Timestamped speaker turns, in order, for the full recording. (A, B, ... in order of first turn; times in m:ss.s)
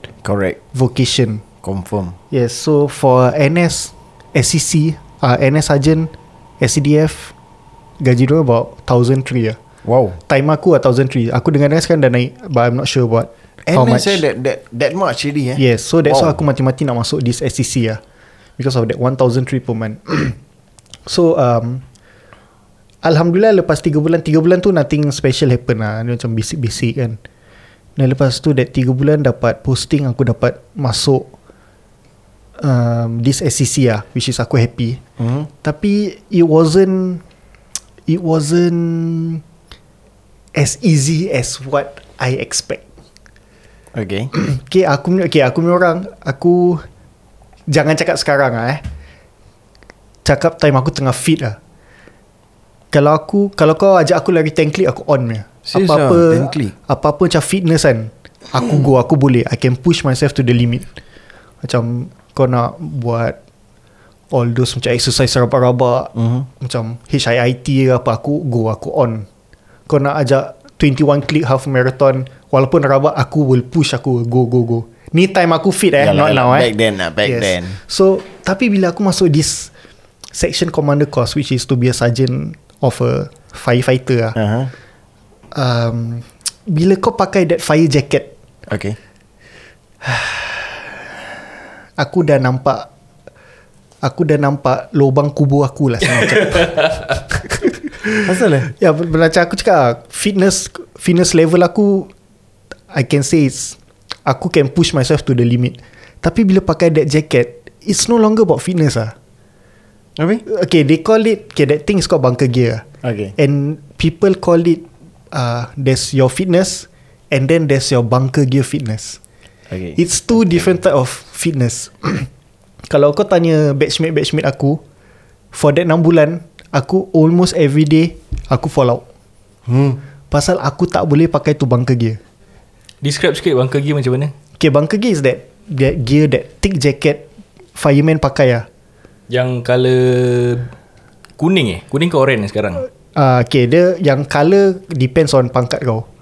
0:00.2-0:00.6 A
0:00.7-0:01.4 B
0:01.6-0:02.2 A
0:02.3-0:07.3 B
0:08.0-0:09.6 B
0:09.8-0:10.2 A
0:10.3-0:14.2 B
0:13.7-0:16.3 A
0:15.6-0:18.0 B
0:18.6-0:20.4 B
0:21.1-0:21.8 B
0:23.0-0:27.2 B
0:28.0-0:31.3 B
0:32.6-0:35.0 B
0:35.2-0:35.5 A
0:35.6-0:37.2 B
0:38.1-0:39.4 B
0:40.5-0:42.8 B
0:43.9-0:44.3 A
0:44.3-0:46.8 B
0:47.7-0:48.8 B
0:50.2-0:51.6 B
0:52.9-1:00.9 B
0:55.7-0:56.7 A
1:01.6-1:03.4 B
1:04.3-1:09.3 B
1:06.2-1:06.5 A
1:09.9-1:16.7 B
1:16.0-1:17.8 A
1:17.2-1:19.7 B
1:20.4-1:24.4 B
1:24.4-1:24.7 A
1:25.5-1:28.3 B
1:28.7-1:29.0 A
1:30.0-1:30.8 B
1:32.0-1:32.9 B
1:34.0-1:37.5 B
1:38.2-1:38.7 A
1:38.7-1:42.1 B
1:42.9-1:49.1 B
1:50.2-1:50.4 A
1:50.5-1:52.8 B
1:53.0-1:53.3 A
1:53.4-1:59.2 B
1:59.7-2:00.7 A
2:00.0-2:02.3 B
2:02.9-2:04.8 B
2:05.5-2:09.0 B
2:09.7-2:10.0 A
2:10.3-2:12.2 B
2:13.0-2:14.3 C
2:14.6-2:17.2 B
2:17.8-2:18.7 B
2:19.3-2:20.7 C
2:21.4-2:22.9 C
2:23.1-2:26.1 B